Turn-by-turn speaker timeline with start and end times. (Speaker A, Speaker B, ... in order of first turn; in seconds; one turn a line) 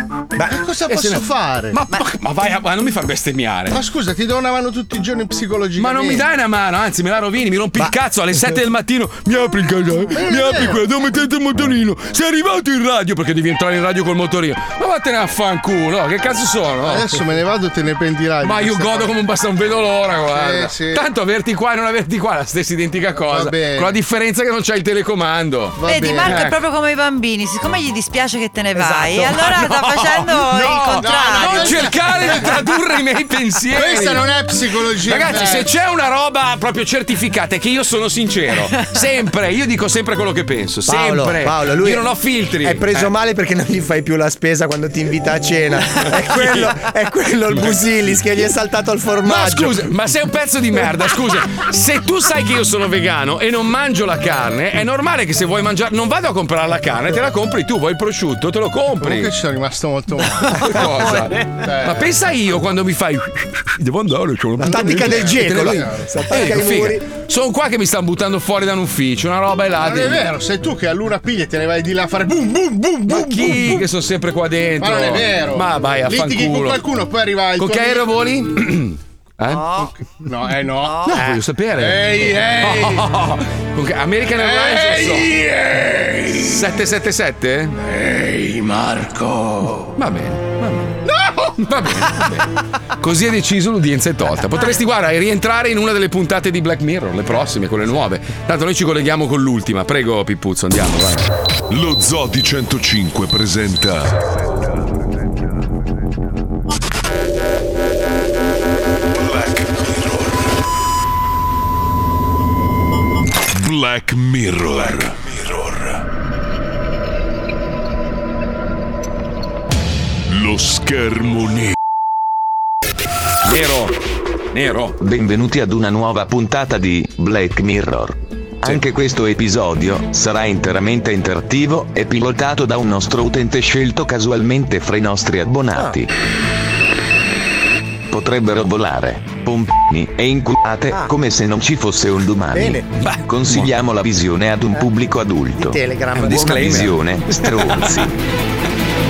Speaker A: 0.3-0.6
Speaker B: 0.4-1.8
Speaker C: 0.9-3.8
Speaker B: 3.7-6.2
Speaker C: 5.8-17.1
Speaker B: 10.1-10.8
Speaker B: 16.8-19.1
Speaker C: 18.4-25.8
Speaker B: 20.3-21.0
Speaker B: 23.2-23.9
Speaker B: 25.8-26.6
Speaker D: 25.8-32.4
Speaker A: 28.7-29.4
Speaker C: 29.3-34.3
Speaker B: 30.7-32.7
Speaker B: 33.7-35.7
Speaker C: 34.9-43.1
Speaker A: 40.9-42.1
Speaker A: 42.6-49.8
Speaker C: 46.0-46.9
Speaker C: 47.5-48.0
Speaker C: 49.2-59.3
Speaker B: 59.0-62.1
Speaker C: 60.5-70.3
Speaker A: 64.6-67.0
Speaker B: 64.7-66.0
Speaker B: 69.8-73.8
Speaker C: 73.1-76.8
Speaker B: 74.8-78.2
Speaker C: 77.6-79.7
Speaker D: 79.5-79.9
Speaker B: 79.8-81.2
Speaker D: 80.8-81.2
Speaker C: 81.0-85.3
Speaker B: 81.8-83.0
Speaker B: 84.3-86.3
Speaker C: 86.3-87.8
Speaker C: 90.0-91.0
Speaker C: 91.6-92.5
Speaker C: 93.0-101.3
Speaker E: 101.7-104.3
Speaker E: 109.2-110.5
Speaker E: 113.5-116.0
Speaker E: 120.3-121.8
Speaker C: 123.4-123.9
Speaker C: 124.5-125.0
Speaker F: 125.0-136.1
Speaker F: 138.1-148.1
Speaker A: 142.5-142.8
Speaker C: 143.0-143.7
Speaker A: 145.6-146.8
Speaker C: 146.1-148.1